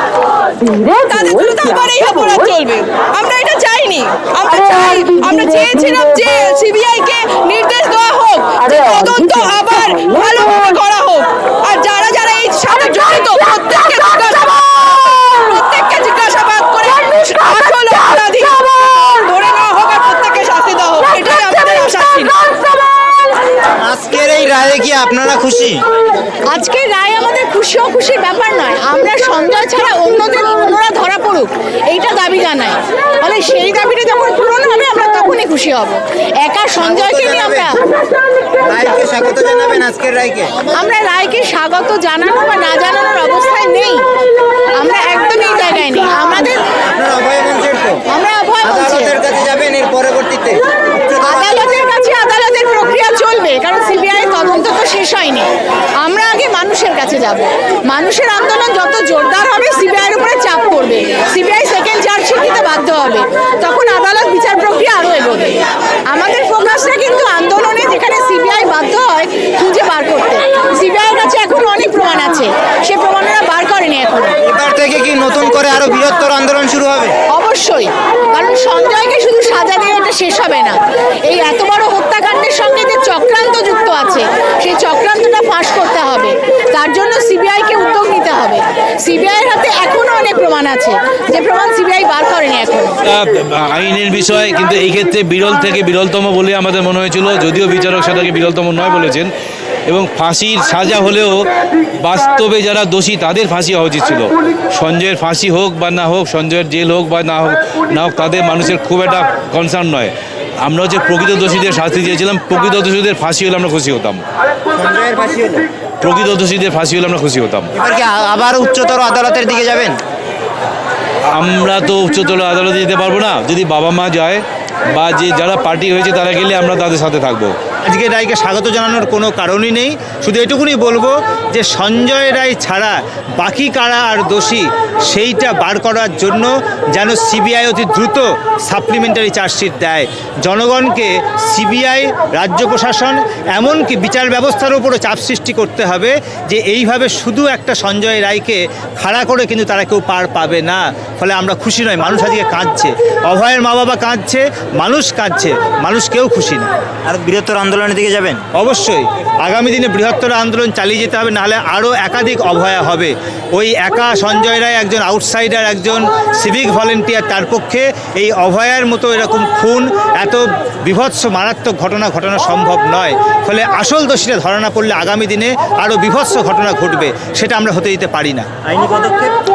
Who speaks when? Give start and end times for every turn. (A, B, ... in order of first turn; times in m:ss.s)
0:00.6-0:22.5 A
0:23.8-0:25.8 B
0:26.5-0:37.7 C
0:36.8-0:37.7 B
0:38.6-0:40.5 B
0:40.8-0:44.1 C
0:44.8-0:46.6 C
0:46.9-0:48.0 B
0:48.1-0:49.2 C
0:48.6-0:51.9 B
0:51.2-0:55.5 C
0:56.0-1:05.6 C
1:06.1-1:14.4 C
1:14.4-1:17.1 B
1:17.3-1:20.8 C
1:21.3-1:33.0 C
1:33.0-1:39.3 D
1:39.9-1:41.5 D
1:42.0-1:54.2 D
1:54.7-1:55.7 B
1:56.0-1:57.7 D
1:57.7-1:59.9 B
2:01.3-2:07.5 D
2:07.9-2:36.7 E
2:37.0-2:38.4 B
2:38.5-2:58.5 E
2:58.6-2:59.3 B